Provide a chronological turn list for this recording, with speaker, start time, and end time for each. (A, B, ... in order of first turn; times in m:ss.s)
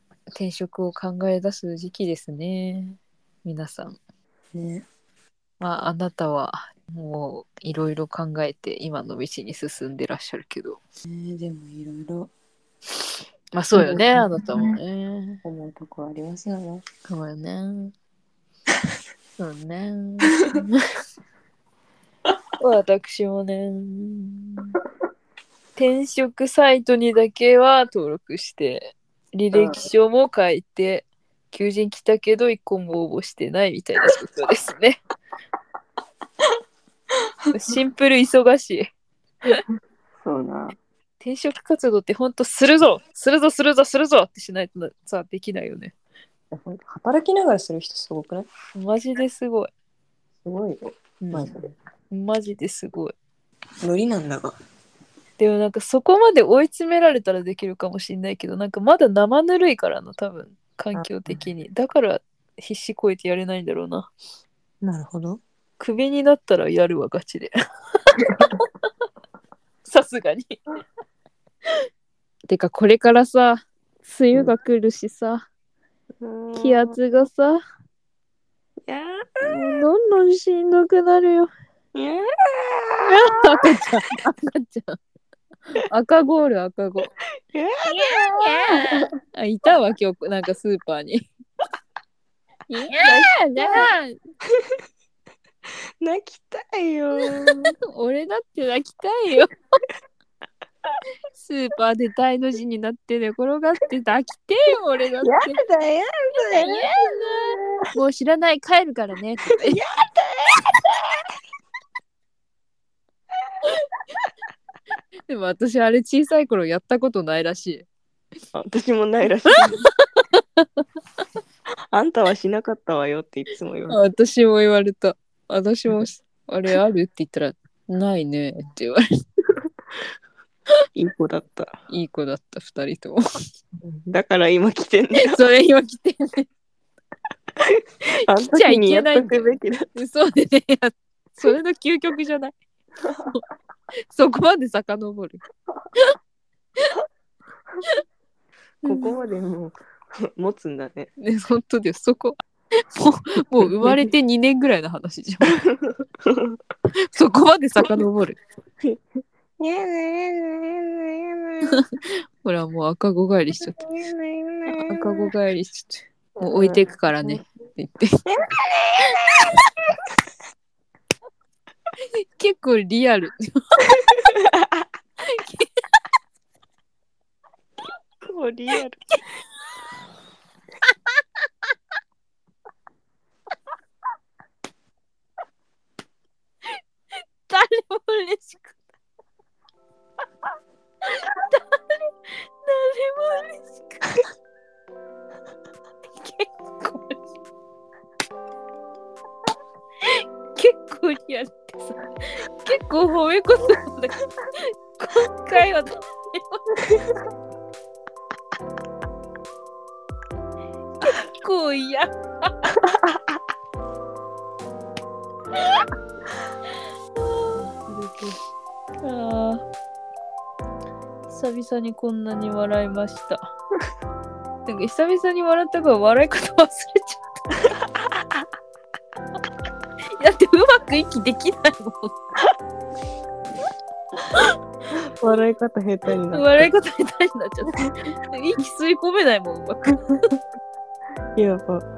0:00.3-0:04.0 A
0:04.5-0:04.8 B
0:05.6-0:10.8 A
0:11.0-0:12.3 B
0:13.5-0:15.4 A
0:13.7-0:14.8 B
0:15.4-0:16.8 B
0:17.1-0:17.9 A
0:19.4-0:20.8 A
0:22.6-0:24.8 A
0:25.8-0:35.0 A
0:29.5-0:29.8 B
0:37.5-0:38.9 A
0:40.2-0:40.8 B
0:41.2-0:45.9 A
0:46.5-0:48.5 B
0:48.7-0:49.7 A
0:50.4-0:51.7 B
0:51.2-0:51.5 A
0:52.1-0:53.1 A
0:53.8-0:54.6 B
0:55.4-1:04.1 A
1:00.9-1:01.4 B
1:04.8-1:05.4 B
1:05.8-1:07.5 A
1:08.1-1:08.6 A
1:08.2-1:08.5 B
1:09.8-1:10.6 A
1:12.5-1:15.5 A
1:16.2-1:17.0 B
1:16.6-1:17.6 A
1:18.9-1:19.8 B
1:19.4-1:21.5 A
1:21.9-1:23.8 B
1:23.1-1:25.0 A
1:25.7-1:27.1 A
1:27.5-1:29.1 B
1:27.8-1:31.3 A
1:32.7-1:34.2 A
1:33.0-1:33.9 B
1:36.0-1:37.8 B
1:37.9-1:39.5 A
1:41.4-1:45.6 A
1:45.2-1:47.9 B
1:46.5-1:49.8 A
1:49.5-1:51.2 B
1:55.3-1:57.8 A
1:58.5-1:59.8 B
1:59.8-2:00.8 A
2:01.9-2:04.0 B
2:03.9-2:09.0 A
2:11.0-2:11.7 B
2:11.9-2:13.2 A
2:13.8-2:15.4 B
2:15.2-2:16.5 A
2:17.6-2:19.9 B
2:18.4-2:22.6 A
2:24.1-2:25.4 A
2:28.8-2:29.1 A
2:28.8-2:31.1 B
2:31.2-2:35.6 A
2:35.7-2:36.6 B
2:37.1-2:38.4 A
2:39.6-2:41.8 B
2:41.6-2:43.8 A
2:43.7-2:45.3 B
2:44.7-2:48.2 A
2:46.4-2:47.4 B
2:48.3-2:50.0 B
2:52.1-2:53.6 A
2:53.9-2:54.8 B
2:55.2-2:55.7 A
2:58.2-2:59.0 B
3:00.9-3:01.2 A
3:07.4-3:08.7 A
3:11.0-3:14.3 A
3:16.2-3:17.2 A
3:20.0-3:26.8 A
3:26.8-3:27.2 B
3:31.0-3:32.5 A
3:32.8-3:33.4 B
3:35.6-3:35.8 A
3:37.5-3:38.4 A
3:39.0-3:39.6 A
3:41.3-3:43.4 A
3:44.6-3:47.2 A
3:50.2-3:52.2 A
3:54.9-3:56.7 B
3:56.3-4:00.1 A
4:01.4-4:01.8 B